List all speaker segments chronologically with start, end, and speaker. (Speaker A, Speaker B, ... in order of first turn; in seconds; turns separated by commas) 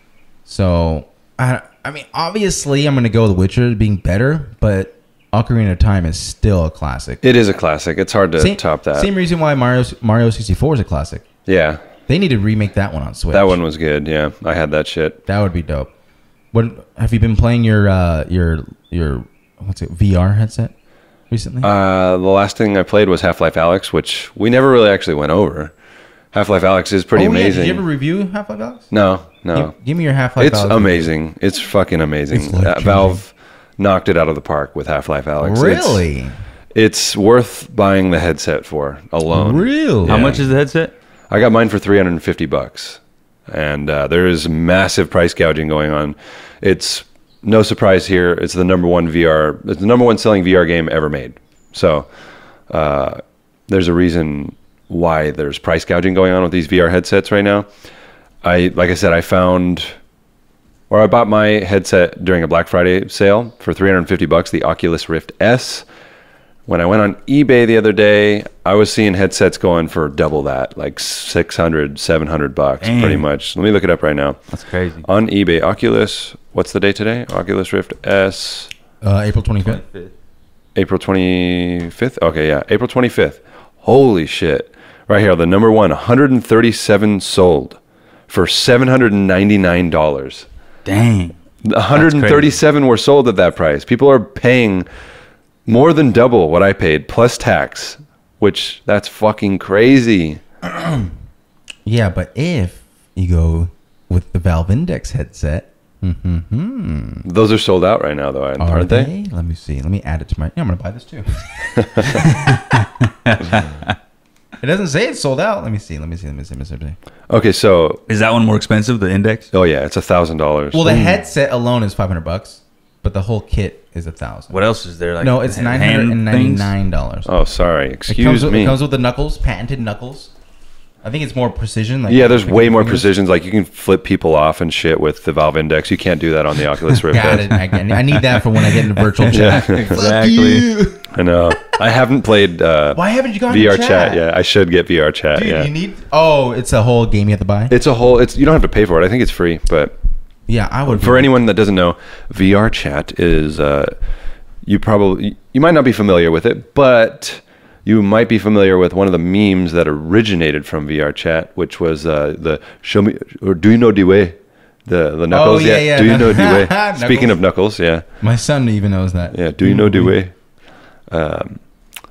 Speaker A: 0.5-7.2, Speaker B: 7.2-9.1, Speaker A: 8.4-11.2, Speaker B: 11.4-11.8, Speaker A: 12.1-13.6, Speaker B: 13.3-15.2, Speaker A: 15.2-15.9, Speaker A: 16.5-20.7, Speaker A: 21.3-21.7, Speaker B: 21.6-25.7, Speaker B: 26.3-27.8, Speaker A: 27.1-28.9, Speaker B: 28.9-29.7, Speaker A: 29.5-31.1, Speaker B: 30.4-36.0, Speaker A: 32.3-33.2, Speaker A: 35.4-36.4, Speaker B: 36.7-40.5, Speaker A: 39.3-40.4, Speaker C: 40.0-40.9, Speaker B: 41.3-52.1, Speaker B: 52.7-57.7, Speaker B: 58.4-60.0, Speaker B: 60.9-65.9, Speaker B: 66.7-74.4, Speaker C: 72.8-73.2, Speaker C: 74.5-75.0, Speaker B: 75.0-78.7, Speaker A: 79.0-79.8, Speaker C: 79.6-80.1, Speaker B: 80.8-90.5, Speaker C: 90.9-91.4, Speaker B: 91.6-94.9, Speaker C: 91.9-92.5, Speaker B: 95.7-100.4, Speaker A: 100.6-101.1, Speaker A: 101.9-107.2, Speaker B: 107.2-109.1, Speaker A: 108.6-113.9, Speaker B: 111.8-112.1, Speaker C: 112.6-113.4, Speaker A: 114.6-117.0, Speaker B: 117.3-118.0, Speaker C: 118.1-119.5, Speaker B: 119.5-121.2, Speaker A: 120.7-124.5, Speaker C: 124.5-126.7, Speaker A: 125.2-127.3, Speaker B: 127.2-128.8, Speaker A: 128.1-130.3, Speaker A: 131.0-133.1, Speaker B: 132.1-137.6, Speaker A: 137.1-141.8, Speaker C: 137.3-140.7, Speaker B: 139.3-140.0, Speaker B: 141.1-145.7, Speaker A: 142.9-144.2, Speaker A: 145.3-147.7, Speaker B: 147.7-149.9, Speaker A: 150.5-151.3, Speaker B: 150.9-153.9, Speaker B: 154.6-168.0, Speaker A: 165.3-167.4, Speaker A: 168.2-170.2, Speaker B: 169.3-170.3, Speaker B: 171.1-171.6